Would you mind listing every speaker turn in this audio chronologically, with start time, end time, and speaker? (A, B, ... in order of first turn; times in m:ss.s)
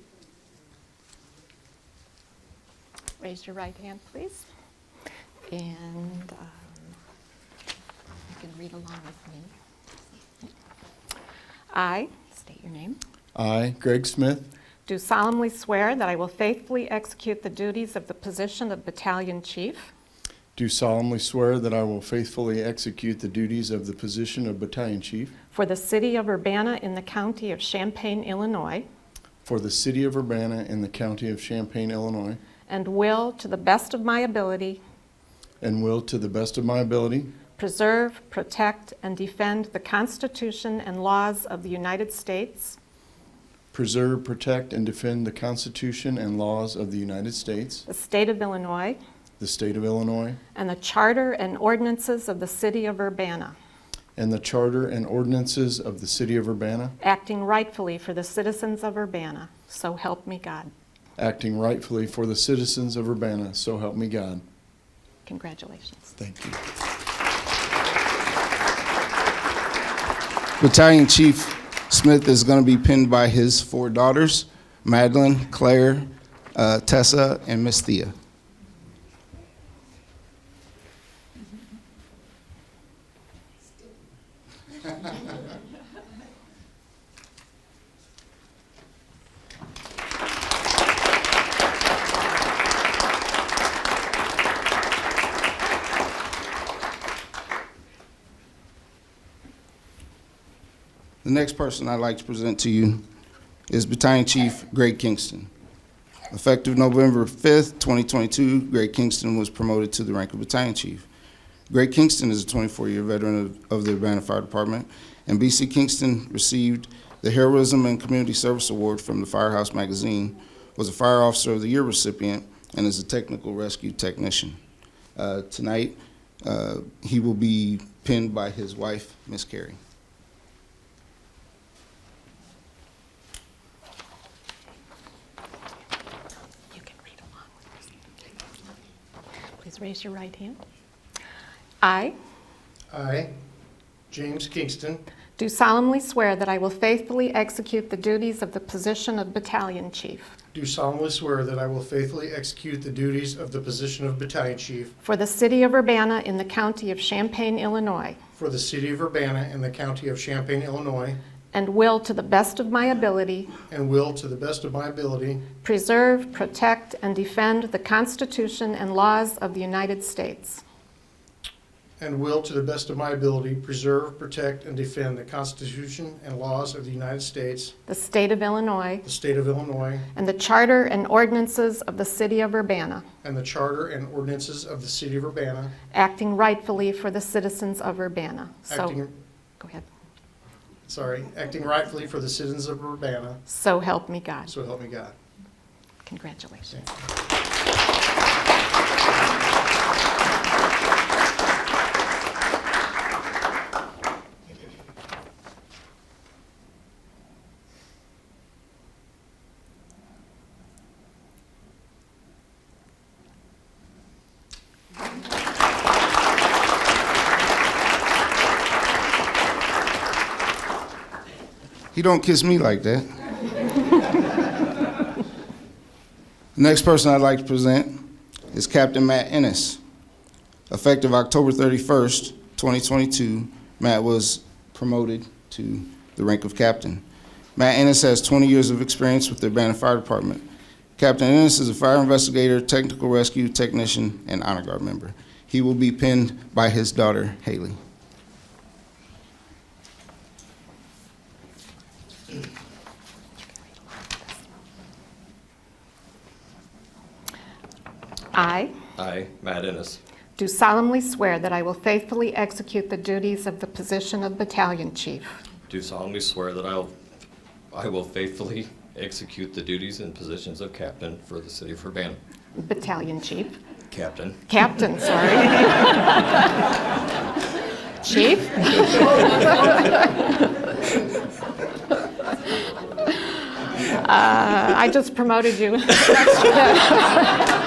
0:03.4-0:04.4 A
0:05.5-0:06.5 A
0:08.3-0:09.5 A
0:11.7-0:13.0 A
0:13.3-0:14.5 B
0:14.8-0:19.9 A
0:20.5-0:25.3 B
0:25.5-0:28.8 A
0:29.4-0:32.4 B
0:32.7-0:34.8 A
0:35.6-0:37.3 B
0:37.6-0:42.8 A
0:43.7-0:47.8 B
0:47.9-0:49.0 A
0:49.4-0:50.4 B
0:50.5-0:53.6 A
0:54.2-0:56.9 B
0:57.0-1:00.7 A
1:01.2-1:04.4 B
1:05.3-1:06.1 A
1:06.2-1:06.6 B
1:10.6-1:18.1 C
1:41.2-1:43.0 C
1:43.7-1:45.5 C
1:46.3-1:51.1 C
1:51.7-2:04.6 C
2:05.2-2:09.8 C
2:16.7-2:17.5 A
2:19.6-2:20.6 A
2:21.8-2:22.1 A
2:22.9-2:23.3 D
2:24.1-2:25.0 D
2:25.4-2:30.3 A
2:30.5-2:34.9 D
2:35.0-2:38.2 A
2:38.3-2:41.2 D
2:41.5-2:43.5 A
2:43.7-2:45.5 D
2:45.5-2:50.6 A
2:52.0-2:57.8 D
2:57.9-2:59.0 A
2:59.0-3:00.1 D
3:00.1-3:03.1 A
3:03.2-3:05.8 D
3:05.9-3:08.9 A
3:08.7-3:09.2 D
3:09.6-3:09.8 A
3:10.9-3:13.4 D
3:13.5-3:14.5 A
3:14.5-3:15.1 D
3:16.0-3:16.7 A
3:41.9-3:43.1 C
3:46.6-3:47.9 C
3:48.5-3:49.8 C
3:50.7-3:57.0 C
3:57.6-4:00.4 C
4:01.0-4:07.8 C
4:18.3-4:18.7 A
4:19.0-4:20.0 E
4:20.4-4:25.3 A
4:25.7-4:26.9 E
4:27.7-4:32.2 E
4:32.5-4:33.6 A
4:33.9-4:34.4 E
4:34.5-4:36.4 A
4:38.0-4:39.2 A
4:43.0-4:43.4 A
4:43.9-4:47.4 A